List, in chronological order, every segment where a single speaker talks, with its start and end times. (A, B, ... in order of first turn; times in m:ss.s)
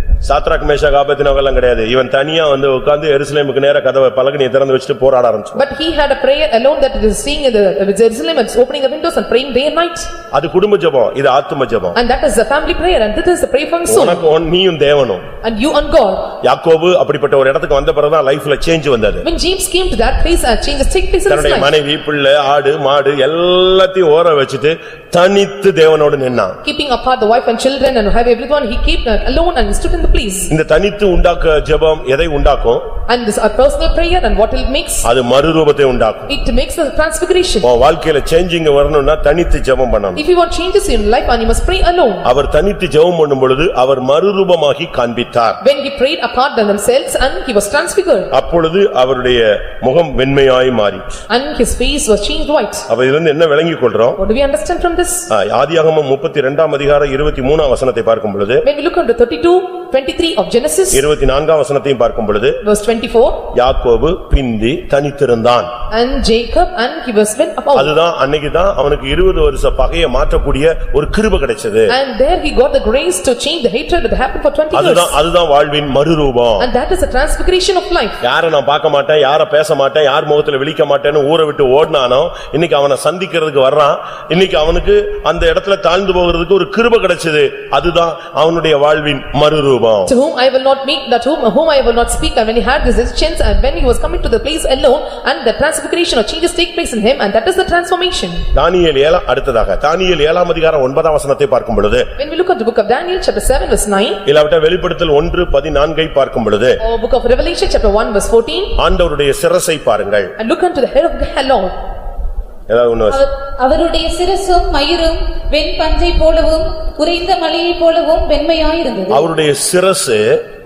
0:00.2-0:05.6 A
0:05.5-0:10.1 B
0:10.3-0:12.0 A
0:11.9-0:14.2 B
0:13.9-0:15.2 A
0:15.4-0:16.3 B
0:16.4-0:19.2 A
0:19.2-0:21.7 B
0:21.3-0:26.6 A
0:26.6-0:30.5 B
0:30.5-0:32.8 A
0:33.1-0:35.0 B
0:35.0-0:36.3 A
0:36.3-0:37.7 B
0:37.6-0:40.2 A
0:40.2-0:42.3 B
0:42.2-0:45.6 A
0:45.6-0:48.3 B
0:48.3-0:51.2 A
0:51.3-0:52.8 B
0:52.9-0:54.2 A
0:54.2-0:55.3 B
0:55.3-0:58.6 A
0:58.6-1:01.1 B
1:00.9-1:02.6 A
1:02.6-1:03.5 B
1:03.5-1:05.7 A
1:05.9-1:07.9 B
1:07.7-1:11.9 A
1:11.9-1:15.2 B
1:14.7-1:16.7 A
1:16.6-1:18.2 B
1:18.2-1:30.1 A
1:30.1-1:38.4 B
1:38.5-1:42.1 A
1:42.2-1:44.2 B
1:44.2-1:46.8 A
1:46.8-1:48.7 B
1:48.8-1:50.3 A
1:50.4-1:51.7 B
1:52.7-1:53.2 A
1:53.1-1:59.3 C
1:59.1-2:00.4 A